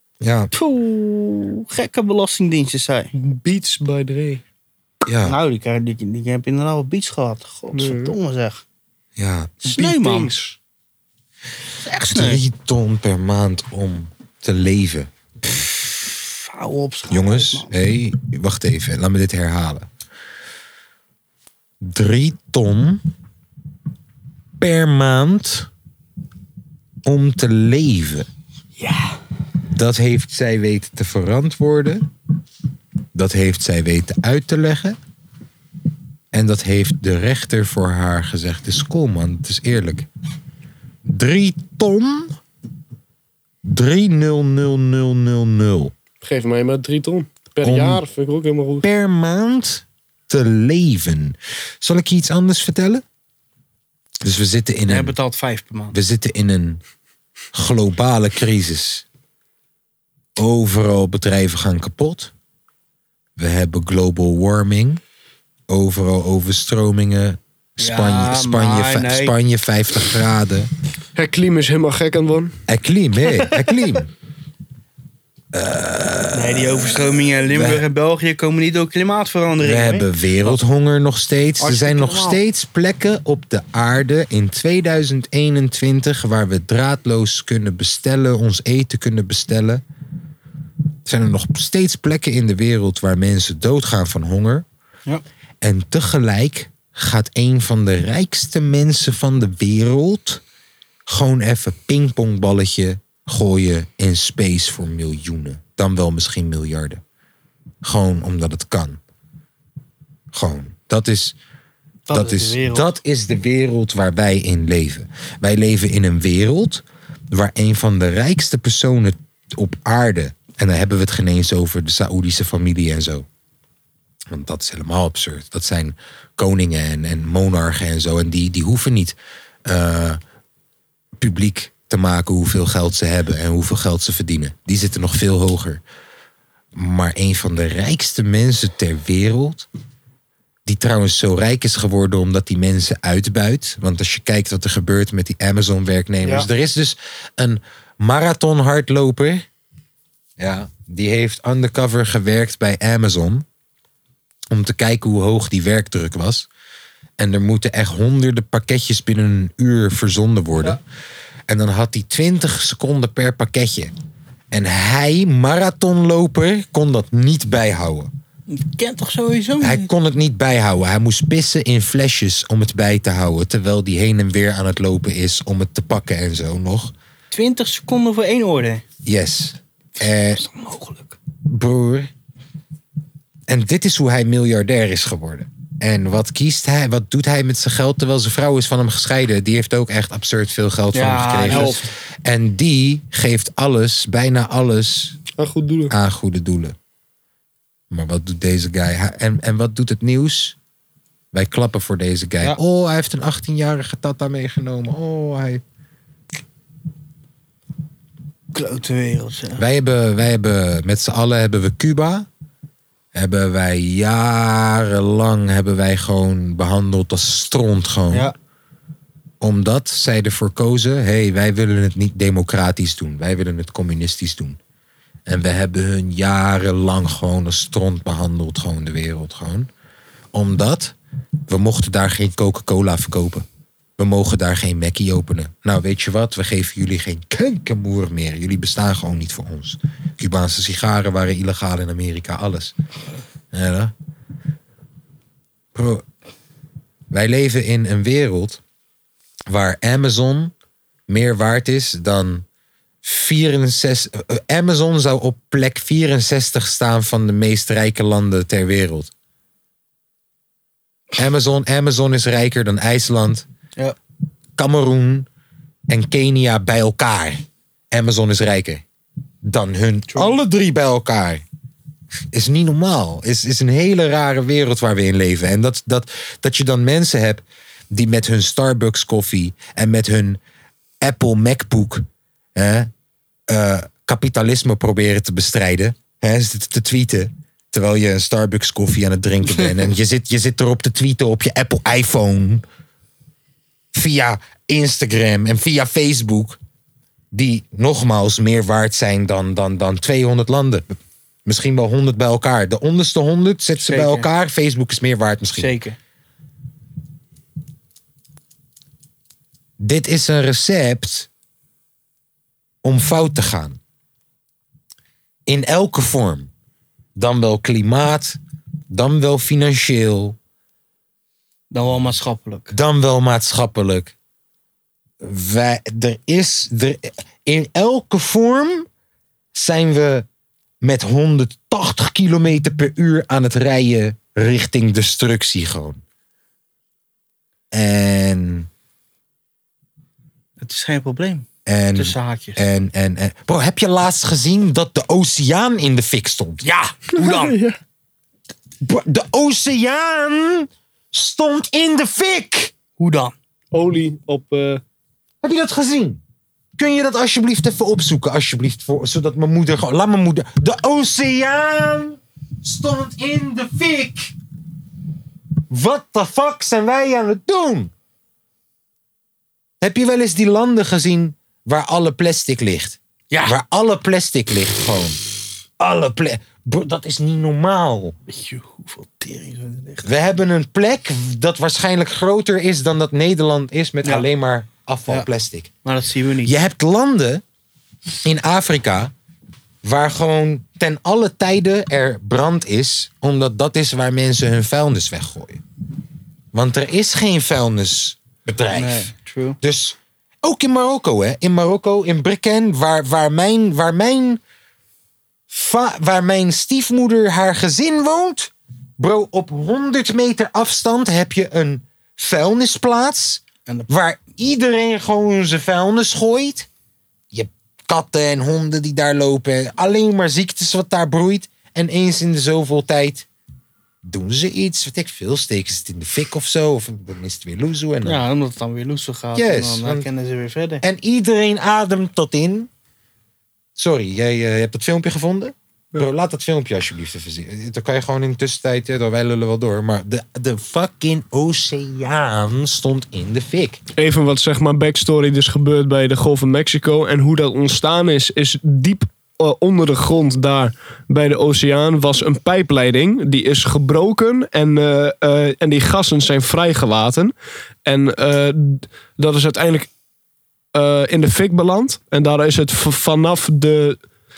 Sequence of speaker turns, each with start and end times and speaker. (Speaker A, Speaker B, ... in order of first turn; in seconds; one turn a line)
Speaker A: 0.2-0.5
Speaker B: 0.5-3.1
Speaker C: 3.1-4.4
Speaker A: 5.0-5.4
Speaker B: 5.2-8.6
Speaker C: 7.7-8.2
Speaker A: 9.2-9.5
Speaker B: 9.6-10.3
Speaker C: 9.6-10.6
Speaker B: 11.8-12.4
Speaker A: 12.1-15.1
Speaker B: 16.2-17.7
Speaker A: 17.1-19.9
Speaker A: 21.8-23.1
Speaker A: 24.6-25.7
Speaker A: 27.0-28.3
Speaker B: 28.8-29.2
Speaker A: 29.7-32.1
Speaker A: 33.1-35.0
Speaker A: 36.3-40.1
Speaker A: 41.0-42.4
Speaker A: 43.6-45.9
Speaker C: 46.2-48.9
Speaker A: 47.6-48.0
Speaker A: 48.8-53.0
Speaker A: 54.2-55.1
Speaker B: 54.9-56.0
Speaker A: 55.9-56.8
Speaker A: 57.5-59.0
Speaker A: 60.4-62.3
Speaker A: 63.4-65.0
Speaker A: 65.7-70.7
Speaker B: 67.8-69.3
Speaker C: 71.1-72.5
Speaker A: 72.7-74.1
Speaker B: 73.3-73.8
Speaker A: 75.5-77.8
Speaker B: 76.3-80.6
Speaker A: 79.6-89.8
Speaker B: 81.6-82.4
Speaker A: 91.0-94.7
Speaker A: 95.6-100.4
Speaker A: 101.1-107.0
Speaker A: 107.8-109.0
Speaker A: 110.3-111.3
Speaker B: 112.1-112.9
Speaker A: 112.1-123.2
Speaker A: 124.3-130.2
Speaker A: 131.2-135.8
Speaker A: 136.7-139.7
Speaker A: 140.7-149.5
Speaker B: 146.2-146.5
Speaker A: 150.4-153.4
Speaker A: 154.5-156.5
Speaker A: 157.2-160.8
Speaker A: 161.5-163.9
Speaker A: 164.5-168.1
Speaker B: 168.5-169.9
Speaker A: 169.6-176.9
Speaker B: 177.3-178.8
Speaker A: 179.0-180.4
Speaker B: 180.3-181.2
Speaker A: 181.4-182.1
Speaker A: 183.5-195.2
Speaker B: 190.9-191.8
Speaker C: 191.5-191.8
Speaker C: 195.4-195.9
Speaker A: 195.9-196.7
Speaker A: 197.9-200.6
Speaker A: 201.3-205.6
Speaker B: 208.5-209.6
Speaker A: 209.6-212.3
Speaker A: 213.1-218.3
Speaker A: 219.4-224.6
Speaker A: 225.2-229.7
Speaker A: 230.3-230.9
Speaker A: 231.5-233.4
Speaker A: 234.0-242.7
Speaker A: 243.5-243.9
Speaker A: 245.7-246.0
Speaker A: 247.1-248.6
Speaker A: 249.5-250.5
Speaker A: 251.1-252.4
Speaker A: 253.0-259.1
Speaker A: 261.1-263.4
Speaker A: 264.6-265.3
Speaker A: 265.9-268.8
Speaker A: 269.4-271.4
Speaker B: 270.1-270.4
Speaker A: 272.3-280.4
Speaker A: 281.0-282.9
Speaker A: 283.5-292.6
Speaker A: 293.9-296.6
Speaker A: 297.3-305.8
Speaker B: 303.8-304.3
Speaker B: 305.6-306.0
Speaker A: 309.8-311.3
Speaker A: 312.8-313.8
Speaker A: 315.4-316.5
Speaker A: 317.1-318.4
Speaker A: 318.9-320.4
Speaker B: 321.7-322.7
Speaker A: 322.7-324.1
Speaker A: 325.2-328.9
Speaker A: 329.5-330.2
Speaker A: 330.8-336.0
Speaker A: 337.7-338.7
Speaker B: 340.6-342.6
Speaker A: 341.6-346.6
Speaker B: 346.6-347.6
Speaker C: 347.2-347.7
Speaker A: 348.8-352.7
Speaker B: 353.0-353.4
Speaker C: 353.7-354.8
Speaker A: 355.4-356.2
Speaker A: 356.8-364.3
Speaker A: 365.7-367.9
Speaker A: 369.8-375.2
Speaker B: 373.3-373.6
Speaker A: 375.8-378.1
Speaker B: 378.3-380.1
Speaker A: 380.0-385.7
Speaker B: 385.8-386.6
Speaker A: 386.4-387.4
Speaker A: 388.2-389.1
Speaker A: 389.8-395.6
Speaker A: 396.5-404.4
Speaker B: 398.7-399.6
Speaker A: 405.5-416.7
Speaker A: 417.3-423.3
Speaker A: 424.0-428.2
Speaker B: 428.0-430.8
Speaker A: 429.3-430.1
Speaker A: 430.8-432.7
Speaker A: 433.8-443.8
Speaker C: 443.9-457.3
Speaker C: 457.8-459.9
Speaker C: 460.7-464.0